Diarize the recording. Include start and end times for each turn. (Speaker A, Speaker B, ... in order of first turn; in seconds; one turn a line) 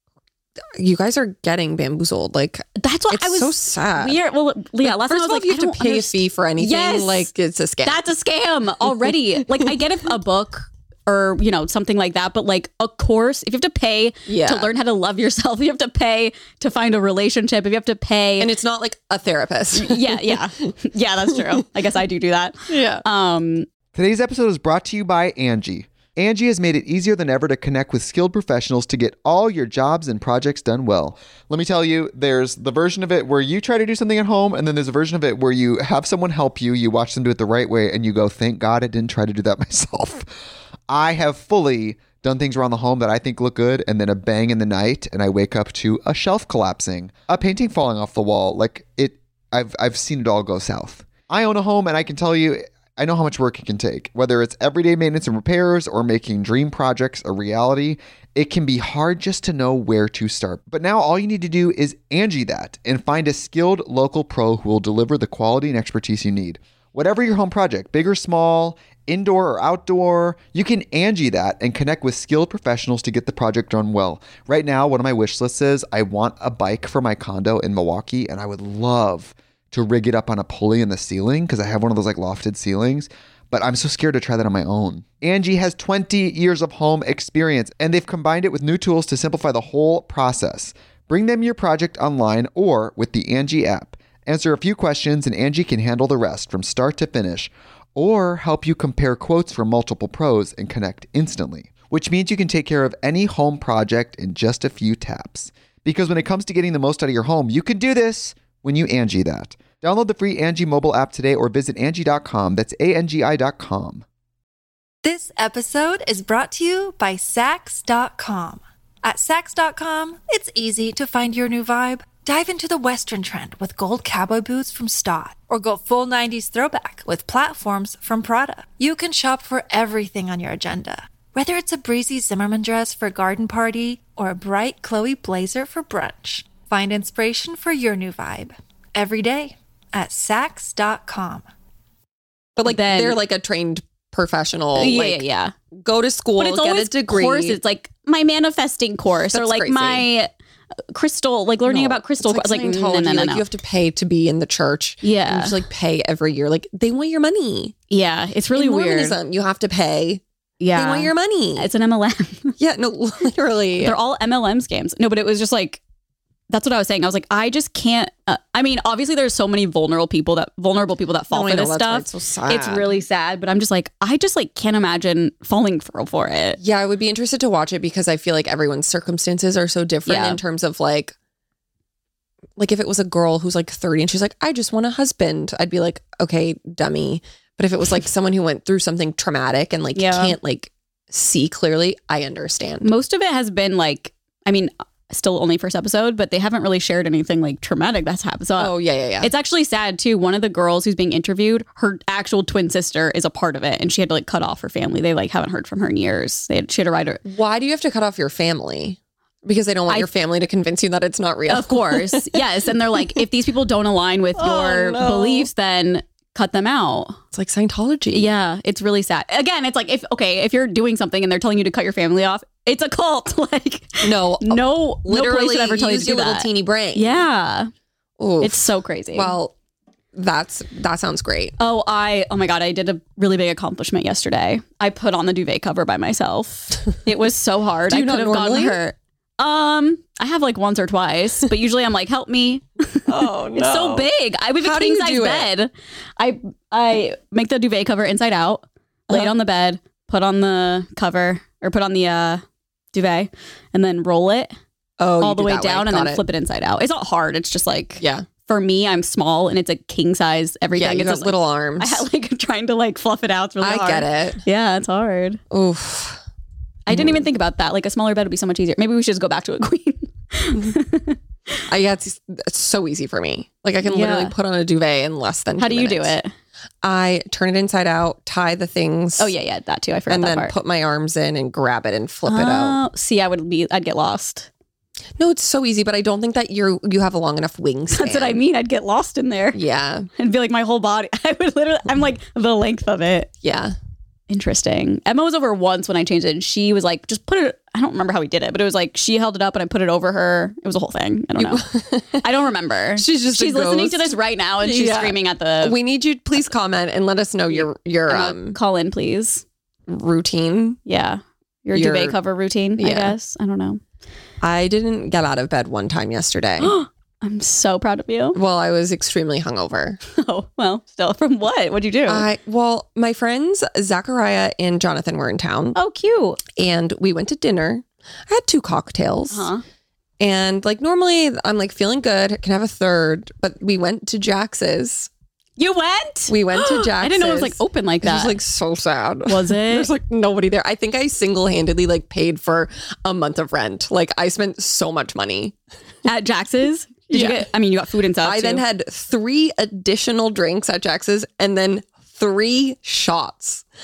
Speaker A: 0.8-4.2
Speaker B: 2.8-7.3
Speaker A: 4.8-8.0
Speaker B: 7.8-18.5
Speaker A: 9.0-9.7
Speaker A: 14.3-14.7
Speaker A: 18.4-20.4
Speaker B: 19.7-23.7
Speaker A: 21.3-21.6
Speaker A: 22.7-23.0
Speaker C: 23.9-40.3
Speaker C: 40.9-114.0
Speaker D: 115.0-141.5
Speaker A: 142.6-145.2
Speaker B: 142.6-143.2
Speaker B: 144.7-145.5
Speaker A: 145.7-147.6
Speaker B: 146.4-150.3
Speaker A: 149.3-150.1
Speaker B: 150.9-153.4
Speaker A: 151.7-157.7
Speaker B: 155.0-155.6
Speaker B: 157.9-159.2
Speaker A: 158.5-160.2
Speaker B: 160.6-162.6
Speaker A: 160.7-161.7
Speaker A: 162.6-163.9
Speaker B: 163.8-165.8
Speaker B: 166.5-176.6
Speaker A: 171.3-172.9
Speaker A: 176.6-181.1
Speaker B: 180.1-180.4
Speaker A: 182.6-192.9
Speaker B: 189.9-190.3
Speaker B: 192.8-207.2
Speaker A: 198.6-199.3
Speaker A: 207.2-212.4
Speaker B: 211.5-217.2
Speaker A: 214.3-215.5
Speaker A: 217.3-218.3
Speaker B: 218.1-227.7
Speaker A: 224.0-227.2
Speaker A: 228.2-228.6
Speaker B: 228.4-229.3
Speaker A: 229.1-229.5
Speaker A: 230.1-231.5
Speaker B: 231.6-254.5
Speaker A: 237.9-238.8
Speaker A: 243.1-244.1
Speaker A: 244.6-245.5
Speaker A: 255.0-256.2
Speaker B: 255.2-265.4
Speaker A: 258.0-258.2
Speaker A: 260.7-262.0
Speaker A: 263.6-264.4
Speaker A: 265.5-266.2
Speaker B: 266.9-271.2
Speaker A: 266.9-267.3
Speaker A: 271.7-276.1
Speaker B: 273.8-274.3
Speaker B: 275.6-276.3
Speaker A: 276.8-279.3
Speaker B: 279.2-280.5
Speaker A: 280.1-282.8
Speaker B: 282.3-284.5
Speaker A: 285.2-288.4
Speaker B: 287.9-289.6
Speaker A: 289.5-290.1
Speaker B: 290.2-293.3
Speaker A: 293.4-293.7
Speaker B: 294.3-301.6
Speaker A: 301.4-302.2
Speaker B: 302.2-305.8
Speaker A: 302.9-308.6
Speaker B: 307.5-309.4
Speaker A: 309.9-310.8
Speaker B: 310.9-313.8
Speaker A: 311.7-312.1
Speaker A: 312.8-313.1
Speaker A: 314.4-316.7
Speaker B: 316.6-318.4
Speaker A: 318.3-320.0
Speaker B: 320.1-322.3
Speaker A: 322.1-325.8
Speaker B: 325.7-326.4
Speaker A: 326.6-329.5
Speaker B: 329.3-329.6
Speaker A: 330.2-335.1
Speaker B: 335.6-338.4
Speaker A: 336.3-345.6
Speaker B: 339.3-339.9
Speaker B: 346.0-348.6
Speaker A: 347.1-347.4
Speaker A: 348.2-353.6